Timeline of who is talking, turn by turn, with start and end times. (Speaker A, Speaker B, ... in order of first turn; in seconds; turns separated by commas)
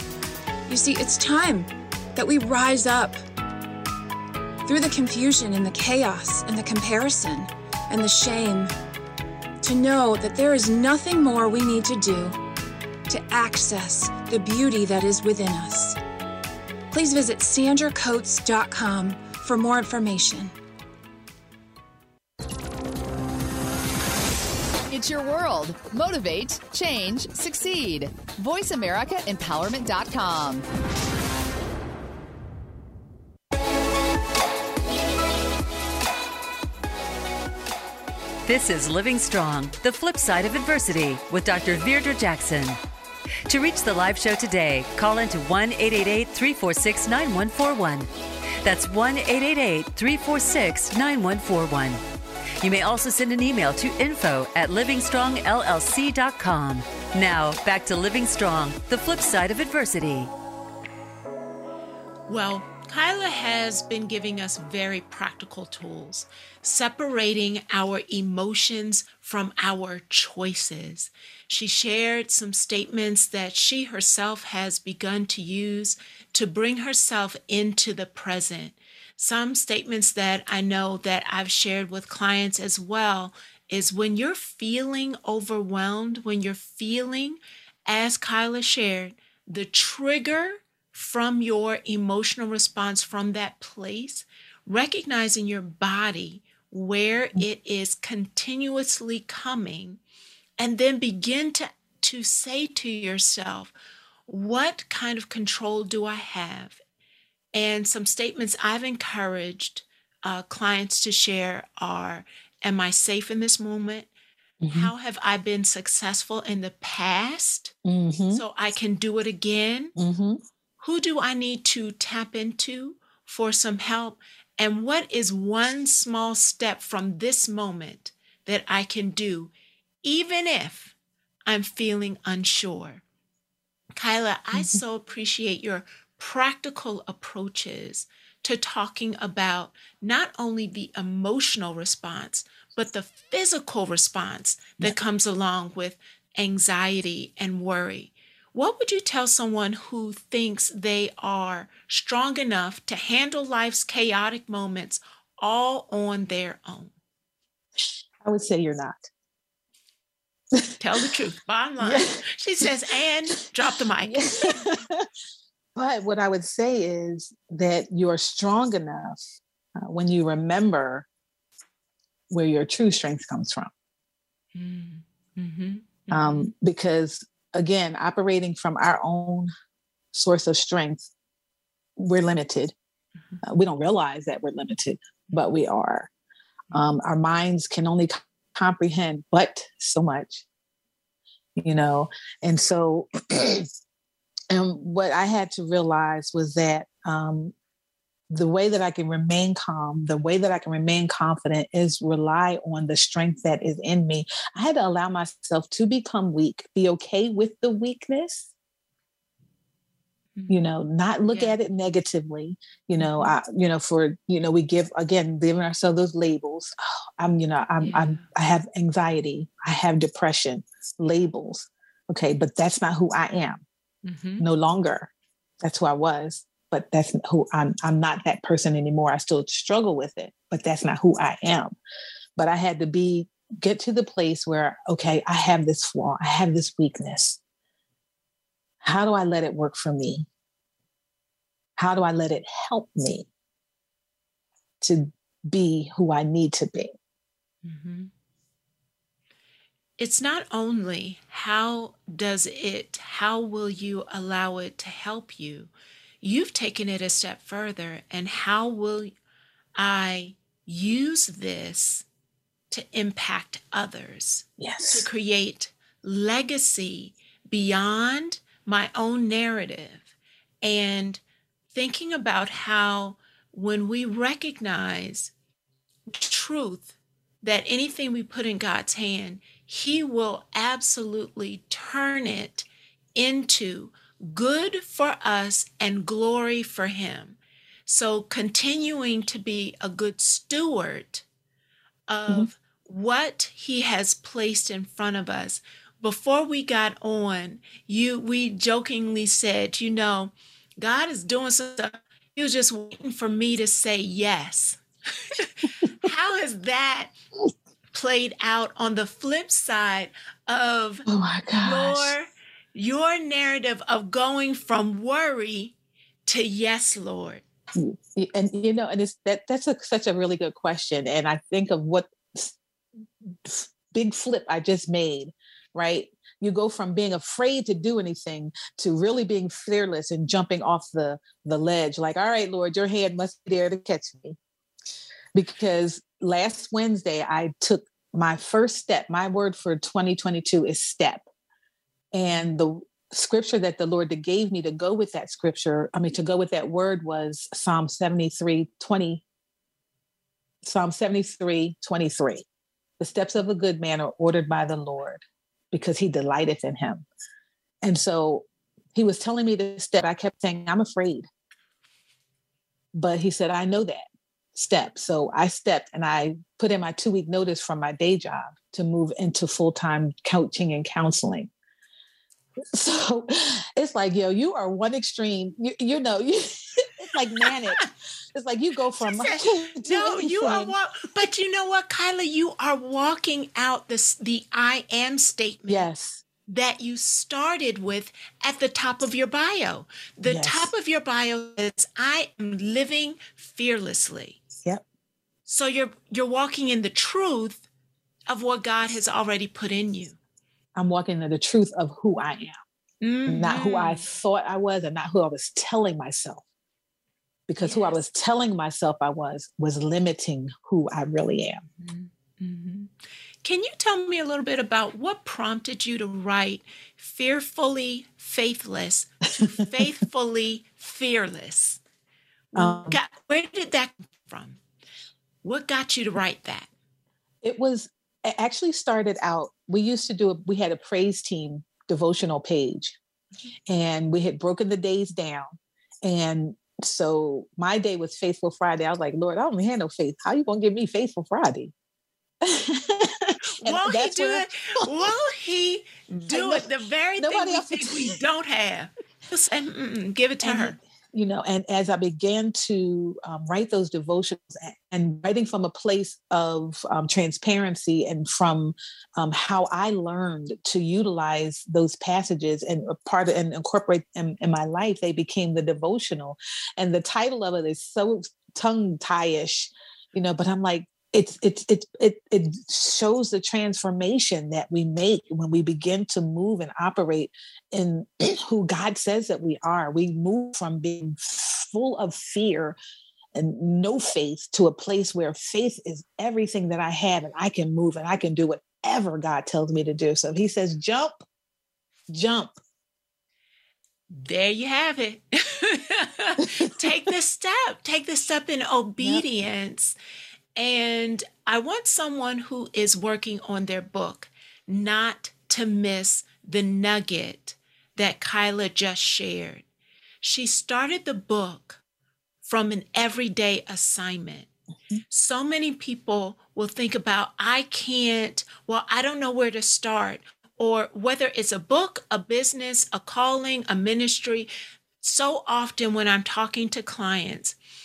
Speaker A: 0.7-3.2, Speaker A: 4.7-8.7, Speaker A: 9.6-12.4, Speaker A: 13.1-16.0, Speaker A: 16.9-20.5, Speaker B: 24.9-30.7, Speaker C: 38.4-42.8, Speaker C: 43.5-48.1, Speaker C: 48.6-52.0, Speaker C: 52.6-60.3, Speaker D: 62.3-100.0, Speaker D: 100.6-103.7, Speaker D: 104.3-106.8, Speaker D: 107.5-114.1, Speaker E: 114.6-114.9, Speaker D: 114.7-117.8, Speaker E: 117.8-118.4, Speaker D: 118.3-120.0, Speaker E: 120.0-120.4, Speaker D: 120.8-129.5, Speaker D: 130.0-130.9, Speaker D: 131.5-133.0, Speaker D: 134.0-156.9, Speaker E: 134.5-134.8, Speaker E: 158.2-159.1, Speaker E: 160.6-161.1, Speaker D: 160.8-164.7, Speaker E: 161.8-162.7, Speaker E: 164.0-165.1, Speaker E: 165.8-169.2, Speaker E: 169.8-171.1, Speaker E: 172.3-173.7, Speaker D: 174.6-176.5, Speaker E: 176.1-179.5, Speaker E: 180.1-181.1, Speaker E: 182.0-182.7, Speaker E: 183.4-186.1, Speaker E: 186.7-190.4, Speaker E: 191.6-193.7, Speaker E: 194.5-197.5, Speaker E: 198.3-208.5, Speaker D: 210.3-210.7, Speaker E: 210.5-223.6, Speaker D: 211.3-211.6, Speaker D: 213.0-213.3, Speaker D: 217.8-218.2, Speaker D: 224.1-224.5, Speaker E: 224.4-225.1, Speaker E: 225.6-231.8, Speaker E: 232.4-237.4, Speaker E: 238.8-240.3, Speaker E: 241.8-243.3, Speaker E: 244.8-246.9, Speaker D: 247.6-248.1, Speaker D: 250.0-255.7, Speaker D: 256.2-259.1, Speaker D: 259.8-262.1, Speaker D: 262.7-271.2, Speaker E: 264.6-265.1, Speaker D: 271.7-275.3, Speaker D: 276.1-291.2, Speaker D: 292.1-307.1, Speaker D: 307.9-311.1, Speaker E: 311.1-312.1, Speaker D: 311.6-315.8, Speaker D: 316.3-317.4, Speaker E: 317.8-322.6, Speaker E: 323.4-334.4, Speaker E: 335.3-341.2, Speaker E: 342.1-349.2, Speaker E: 350.6-352.4, Speaker E: 353.0-357.1, Speaker E: 357.8-361.3, Speaker E: 362.9-371.5, Speaker E: 372.7-380.8, Speaker D: 377.4-377.9, Speaker D: 379.0-385.9, Speaker E: 385.7-386.2, Speaker D: 386.5-394.4, Speaker E: 390.2-390.7, Speaker D: 395.5-397.7, Speaker D: 398.3-400.2, Speaker E: 400.8-402.6, Speaker D: 403.0-404.1, Speaker E: 403.3-406.4, Speaker E: 407.5-411.6, Speaker D: 407.6-408.0, Speaker D: 411.8-412.9, Speaker D: 413.4-421.8, Speaker D: 422.5-424.6, Speaker E: 422.6-423.0, Speaker D: 425.4-426.7, Speaker E: 427.4-433.0, Speaker E: 433.7-441.7, Speaker E: 442.4-445.1, Speaker D: 443.6-450.8, Speaker E: 446.3-446.7, Speaker E: 447.2-448.2, Speaker E: 450.4-482.8, Speaker E: 483.4-491.2, Speaker E: 492.1-492.6, Speaker D: 494.1-500.0, Speaker E: 499.0-499.2, Speaker D: 500.6-509.6, Speaker D: 510.2-511.8, Speaker D: 512.4-514.5, Speaker D: 515.1-524.5, Speaker D: 525.0-527.6